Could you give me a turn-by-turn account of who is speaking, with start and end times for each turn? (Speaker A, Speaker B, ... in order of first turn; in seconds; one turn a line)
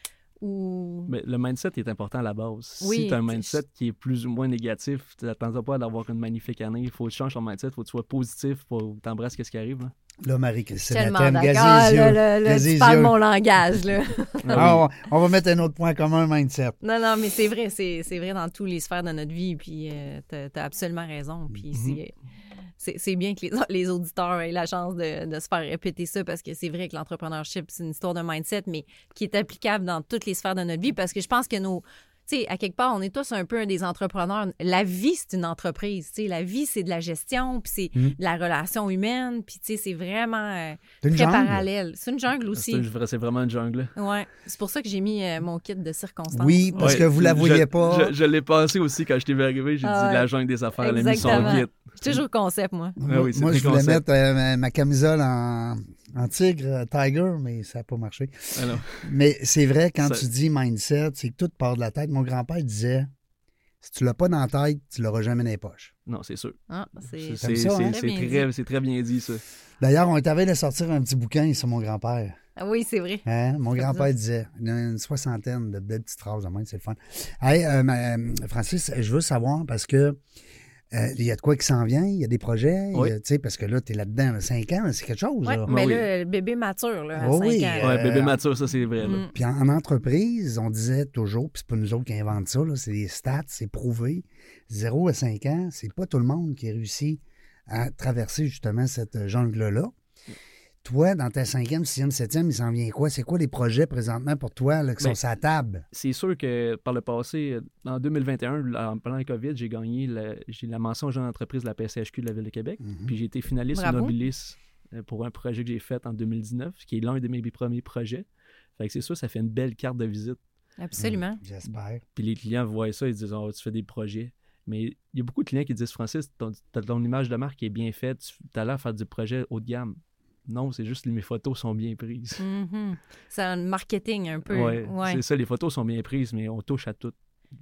Speaker A: 0.4-1.1
Speaker B: 1.1-9.9
Speaker A: 2.8-3.6
Speaker C: 10.2-13.2
Speaker A: 10.9-14.7
Speaker B: 14.4-14.8
Speaker C: 14.5-16.8
Speaker A: 16.8-22.1
Speaker B: 21.7-22.0
Speaker A: 22.8-42.8
Speaker C: 41.0-41.6
Speaker B: 42.5-44.0
Speaker A: 44.0-47.0
Speaker C: 46.3-48.1
Speaker B: 46.8-52.0
Speaker A: 49.8-53.0
Speaker C: 51.2-51.6
Speaker C: 53.0-63.1
Speaker B: 53.1-54.0
Speaker B: 58.5-59.1
Speaker B: 60.0-60.3
Speaker C: 63.8-65.9
Speaker B: 66.1-66.6
Speaker A: 66.7-68.5
Speaker B: 67.1-69.4
Speaker C: 67.4-67.9
Speaker C: 69.8-72.4
Speaker A: 72.6-73.2
Speaker C: 73.3-80.2
Speaker A: 73.8-74.1
Speaker C: 80.9-85.7
Speaker A: 85.5-87.9
Speaker B: 85.7-86.1
Speaker C: 87.2-88.4
Speaker B: 87.8-89.2
Speaker A: 89.0-89.3
Speaker C: 89.3-99.9
Speaker C: 100.8-105.9
Speaker B: 105.9-118.3
Speaker C: 112.8-113.1
Speaker A: 113.7-114.1
Speaker B: 118.8-120.4
Speaker A: 120.8-121.4
Speaker C: 121.0-122.0
Speaker B: 122.2-132.4
Speaker A: 132.4-135.2
Speaker B: 134.5-137.2